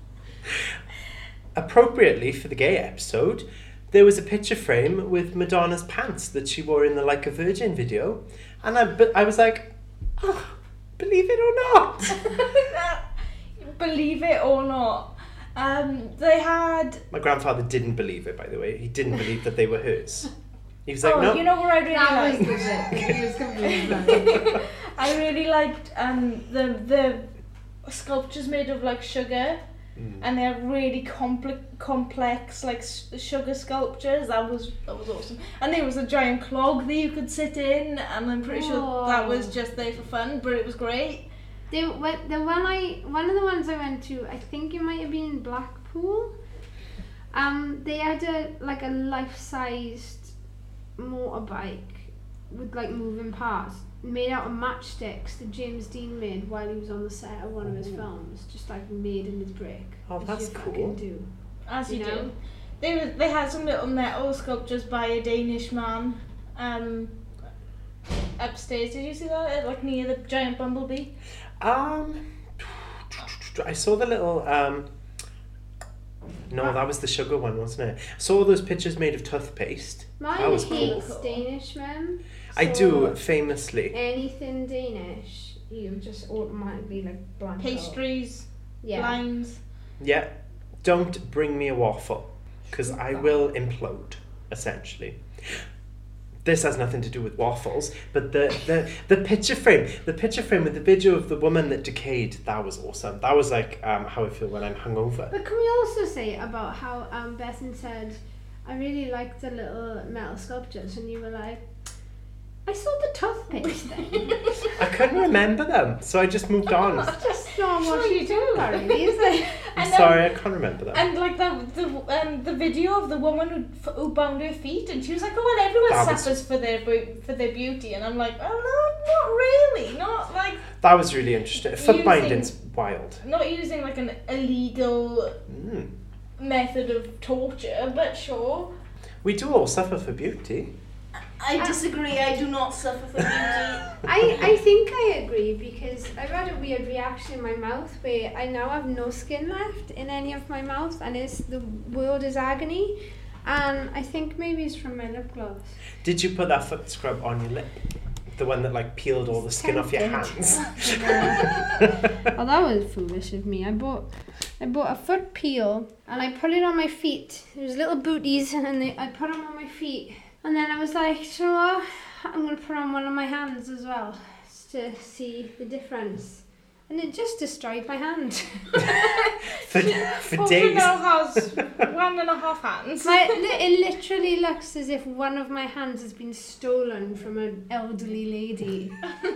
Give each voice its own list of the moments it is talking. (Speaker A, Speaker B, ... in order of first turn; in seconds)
Speaker A: 1.5-12.2, 17.1-20.3, 20.9-21.4, 30.0-30.2, 57.6-58.0, 60.1-61.0, 71.6-74.9, 76.5-81.1, 82.5-83.9, 90.0-95.6, 96.4-105.3, 114.7-117.2, 119.8-121.0, 125.9-126.3, 130.8-133.2, 135.5-135.9, 139.2-140.7, 156.0-157.7, 158.3-161.2, 161.8-162.1, 179.6-181.4
Speaker B: 12.3-17.0, 21.0-22.7, 23.7-27.3, 27.8-29.6, 30.2-41.2, 61.7-67.1, 68.4-71.1, 80.4-81.4, 87.6-89.6, 114.1-114.4, 116.8-120.3, 120.9-130.7, 131.6-132.5, 133.2-135.4, 136.4-138.7, 141.4-143.9, 178.9-183.3
Speaker C: 21.9-24.5, 38.4-39.5, 41.7-46.3, 47.3-50.3, 51.0-61.3, 61.9-62.3, 80.2-83.2, 83.9-88.0, 88.8-89.2, 105.3-111.6, 112.7-114.4, 117.0-119.6, 144.0-155.8, 159.4-164.1, 164.6-179.0, 183.0-189.0